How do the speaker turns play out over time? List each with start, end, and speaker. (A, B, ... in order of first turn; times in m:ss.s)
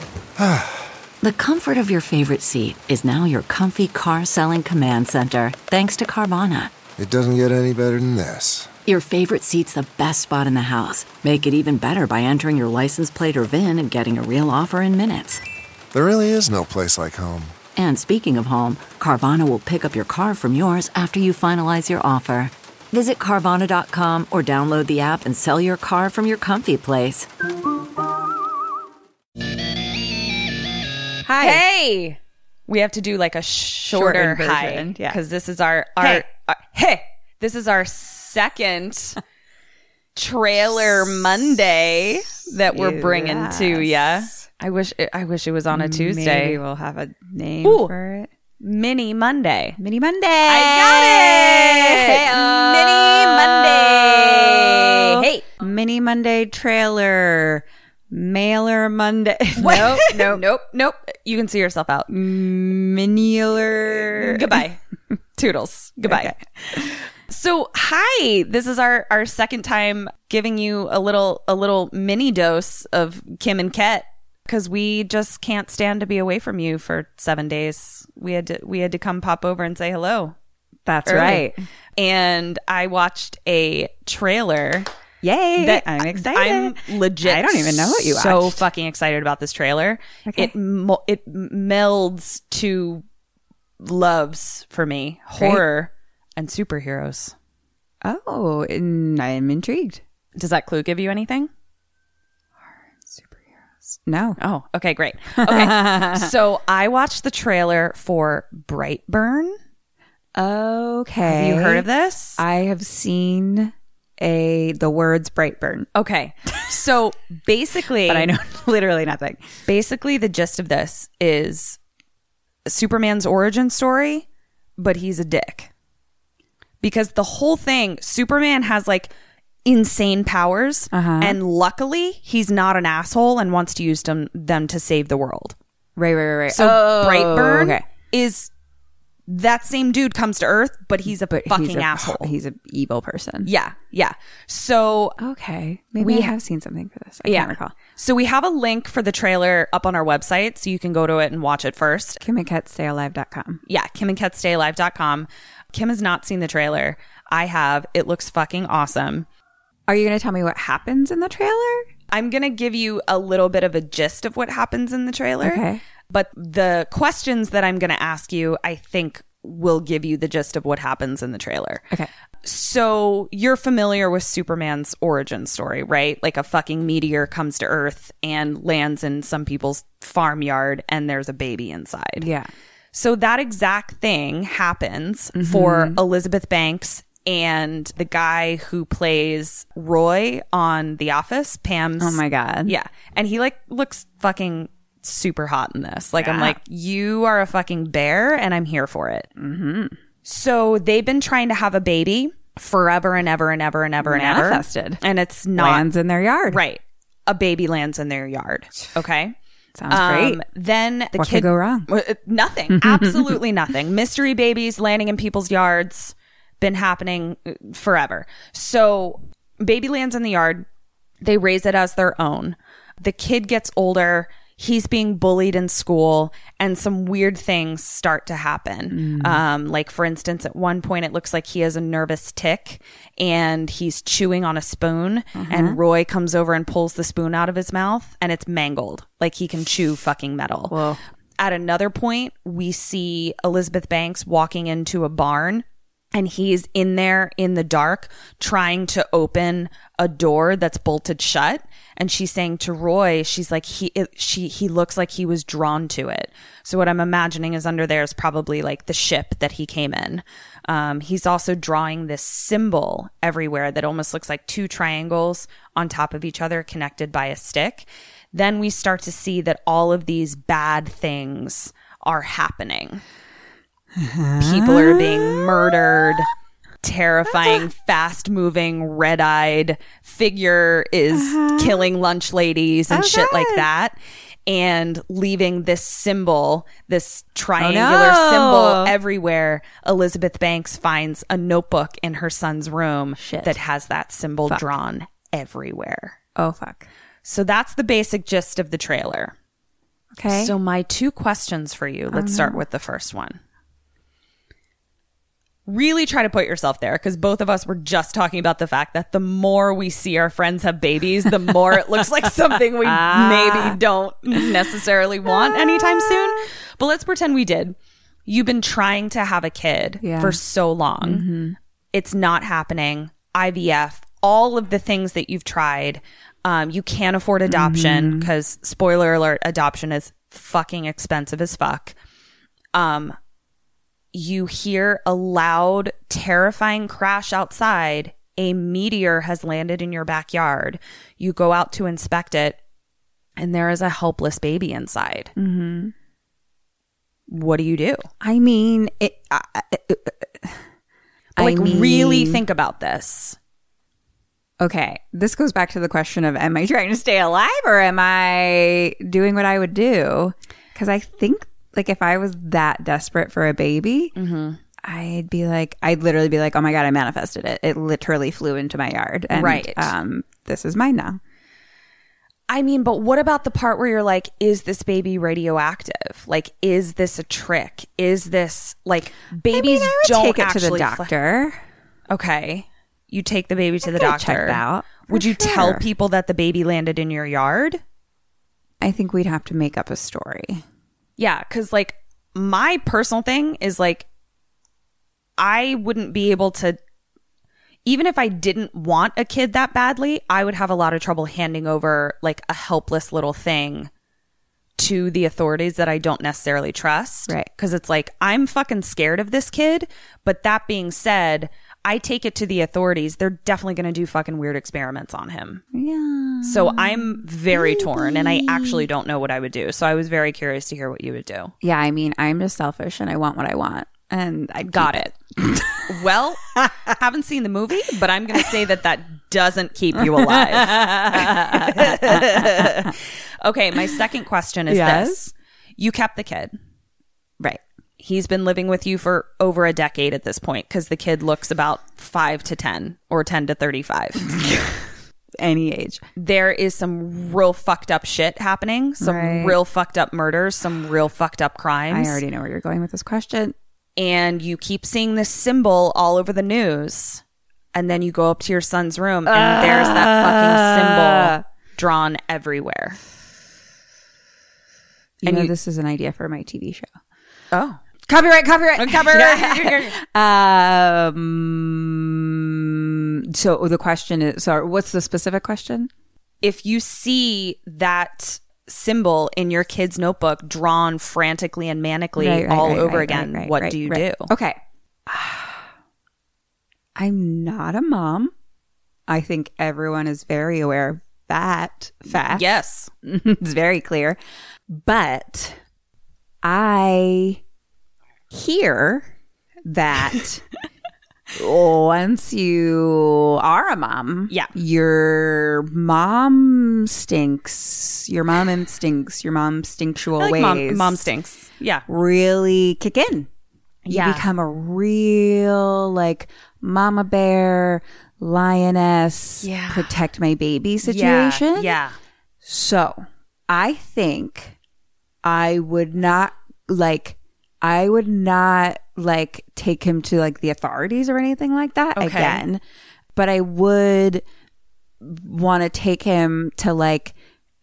0:00.4-0:00.6 A
0:01.2-0:06.8 B
0:07.0-0:08.7 A
0:08.9-0:15.4 B
0:15.9-0:17.5 A
0:17.7-0:27.3 B
0:31.2-0:31.6 C
0:31.4-0:32.2 D
0:32.7-0:39.2 D
0:33.8-0:35.2 C
0:36.0-0:36.2 C
0:40.2-0:46.6 D
0:40.5-0:44.4 C
0:45.7-0:48.3 C
0:47.6-0:47.9 D
0:48.6-0:49.8 D
0:49.8-1:00.4 C
0:50.4-0:55.3 D
0:59.6-1:02.1 D
1:02.1-1:04.6 C
1:04.2-1:04.8 D
1:05.4-1:06.3 D
1:06.0-1:06.9 C
1:07.3-1:20.3 D
1:20.9-1:21.6 C
1:21.0-1:24.9 D
1:25.2-1:28.7 C
1:25.6-1:33.0 D
1:30.2-1:30.5 C
1:33.8-1:37.3 D
1:35.4-1:35.7 C
1:38.0-1:40.0 C
1:40.4-1:41.5 D
1:42.9-1:44.4 C
1:44.4-1:49.5 D
1:45.4-1:46.3 C
1:50.4-1:51.8 C
1:51.2-1:52.4 D
1:52.4-1:55.9 C
1:56.0-1:58.3 D
1:57.8-1:59.4 C
1:59.7-2:01.8 D
2:02.7-2:04.2 D
2:04.8-2:05.7 D
2:06.8-2:09.1 D
2:09.6-2:15.6 D
2:10.9-2:11.4 C
2:16.0-2:17.8 C
2:16.5-2:18.5 D
2:19.3-2:22.3 D
2:21.0-2:23.5 C
2:23.4-2:25.2 D
2:25.2-2:27.7 C
2:26.0-2:26.3 D
2:27.2-2:32.2 D
2:32.2-2:33.6 C
2:33.7-2:39.2 D
2:39.9-2:41.9 C
2:42.1-2:51.8 D
2:45.4-2:45.8 C
2:52.4-3:02.3 D
3:02.2-3:02.5 C
3:02.9-3:19.3 D
3:05.4-3:06.0 C
3:12.0-3:12.8 C
3:16.2-3:16.6 C
3:19.4-3:20.0 C
3:20.3-3:25.8 D
3:24.0-3:25.0 C
3:25.5-3:26.6 C
3:26.5-3:29.3 D
3:29.8-3:30.4 C
3:29.9-3:40.6 D
3:31.1-3:31.9 C
3:32.7-3:33.4 C
3:41.2-4:00.7 D
3:48.9-3:49.4 C
3:55.3-3:55.8 C
4:00.7-4:01.0 C
4:01.4-4:33.0 D
4:34.0-4:36.2 C
4:34.4-4:36.3 D
4:36.8-4:56.1 D
4:37.3-4:37.6 C
4:41.1-4:41.9 C
4:42.9-4:43.7 C
4:47.6-4:49.0 C
4:53.2-4:53.6 C
4:54.5-4:54.7 C
4:56.4-4:56.8 C
4:57.2-4:59.3 D
5:00.1-5:00.6 C
5:00.3-5:03.4 D
5:02.1-5:02.6 C
5:05.7-5:17.8 D
5:11.5-5:11.8 C
5:12.8-5:16.5 C
5:18.3-5:21.2 D
5:20.0-5:20.4 C
5:21.0-5:21.6 C
5:21.9-5:31.9 D
5:27.4-5:28.3 C
5:32.8-5:33.1 D
5:34.2-5:42.6 D
5:43.4-5:45.3 D
5:45.4-5:45.9 C
5:47.3-5:48.1 D
5:48.2-5:50.6 C
5:51.4-5:52.5 C
5:51.4-5:53.4 D
5:54.6-6:04.1 C
6:04.2-6:04.6 D
6:04.8-6:11.2 C
6:09.3-6:09.9 D
6:12.5-6:21.1 D
6:19.5-6:21.6 C
6:22.1-6:27.8 D
6:23.8-6:25.8 C
6:28.8-6:30.6 C
6:31.2-6:34.0 D
6:35.4-6:36.8 D
6:37.8-6:43.9 D
6:44.8-6:55.6 D
6:55.7-6:58.9 C
6:56.4-7:01.5 D
7:01.6-7:07.0 C
7:04.6-7:05.1 D
7:05.9-7:06.4 D
7:06.9-7:12.9 D
7:09.9-7:12.9 C
7:13.4-7:16.5 D
7:14.7-7:15.3 C
7:18.0-7:24.2 D
7:24.2-7:26.0 C
7:26.2-7:32.2 D
7:29.0-7:29.6 C
7:31.9-7:33.5 C
7:34.0-7:37.2 D
7:37.7-7:43.0 D
7:39.2-7:41.4 C
7:45.2-7:46.9 C
7:45.2-7:45.5 D
7:47.5-7:47.8 D
7:48.1-7:55.9 C
7:48.8-7:50.0 D
7:56.4-8:04.3 D
8:02.2-8:05.6 C
8:07.0-8:08.3 C
8:09.1-8:12.5 C
8:12.3-8:12.9 D
8:13.0-8:14.2 C
8:14.7-8:15.6 C
8:16.4-8:17.4 C
8:18.3-8:19.1 C
8:19.7-8:20.4 C
8:21.3-8:31.0 C
8:24.3-8:24.5 D
8:30.2-8:31.8 D
8:31.9-8:33.3 C
8:33.8-8:34.3 D
8:33.9-8:41.8 C
8:39.4-8:40.0 D
8:40.8-8:42.0 D
8:42.4-8:44.5 C
8:45.2-8:52.6 C
8:52.0-8:52.4 D
8:53.1-8:54.2 C
8:55.0-8:57.1 C